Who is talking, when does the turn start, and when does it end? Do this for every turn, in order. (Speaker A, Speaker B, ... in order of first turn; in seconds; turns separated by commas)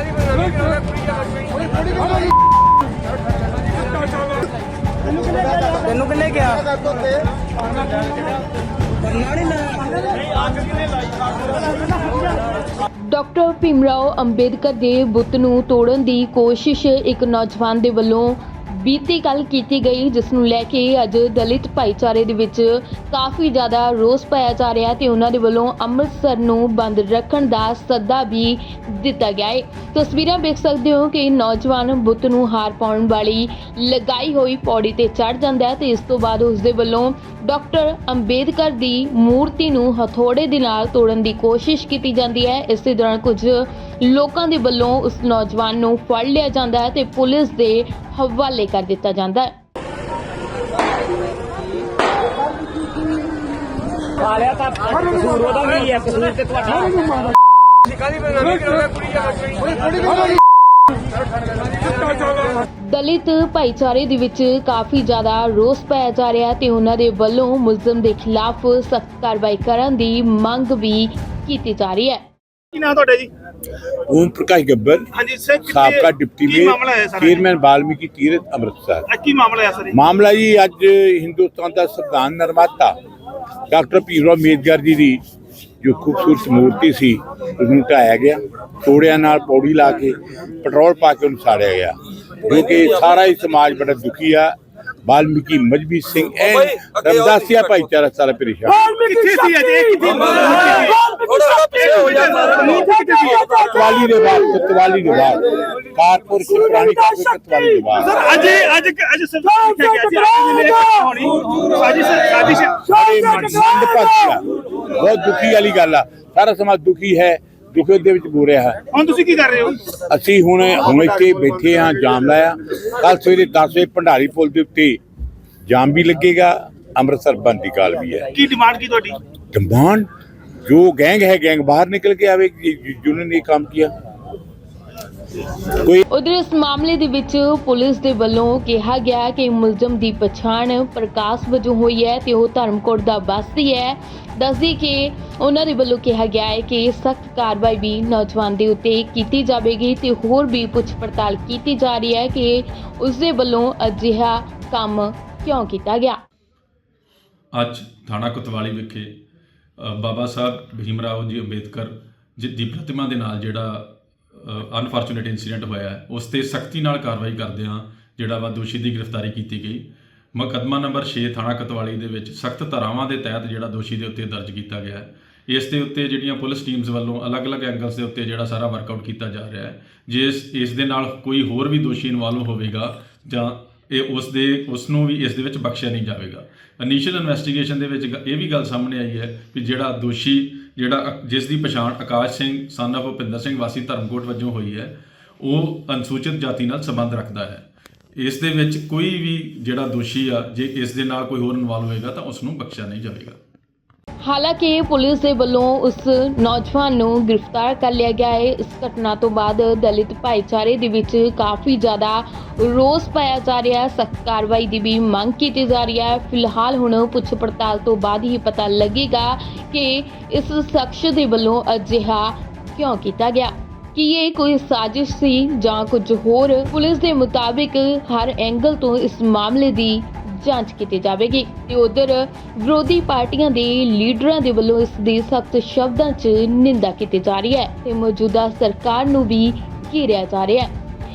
Speaker A: 0.3-1.0, Speaker A: 1.9-2.2, Speaker A: 5.2-6.9, Speaker B: 13.0-49.5, Speaker A: 54.2-57.3, Speaker A: 58.3-60.3, Speaker B: 62.8-72.2, Speaker C: 72.7-73.3, Speaker D: 74.1-75.1, Speaker C: 75.2-77.4, Speaker D: 75.7-79.1, Speaker C: 79.1-79.9, Speaker D: 79.9-83.0, Speaker D: 83.7-85.2, Speaker D: 85.8-94.5, Speaker D: 95.0-98.9, Speaker C: 98.8-103.7, Speaker D: 103.5-108.2, Speaker C: 108.0-113.7, Speaker D: 112.8-118.9, Speaker C: 118.9-119.8, Speaker D: 119.9-125.0, Speaker D: 125.7-128.3, Speaker C: 128.4-129.2, Speaker D: 129.5-130.1, Speaker D: 130.7-133.9, Speaker D: 135.7-136.0, Speaker B: 136.1-156.2, Speaker E: 157.5-159.1, Speaker E: 159.8-169.8, Speaker E: 170.3-197.6, Speaker E: 198.2-203.4, Speaker B: 204.2-240.7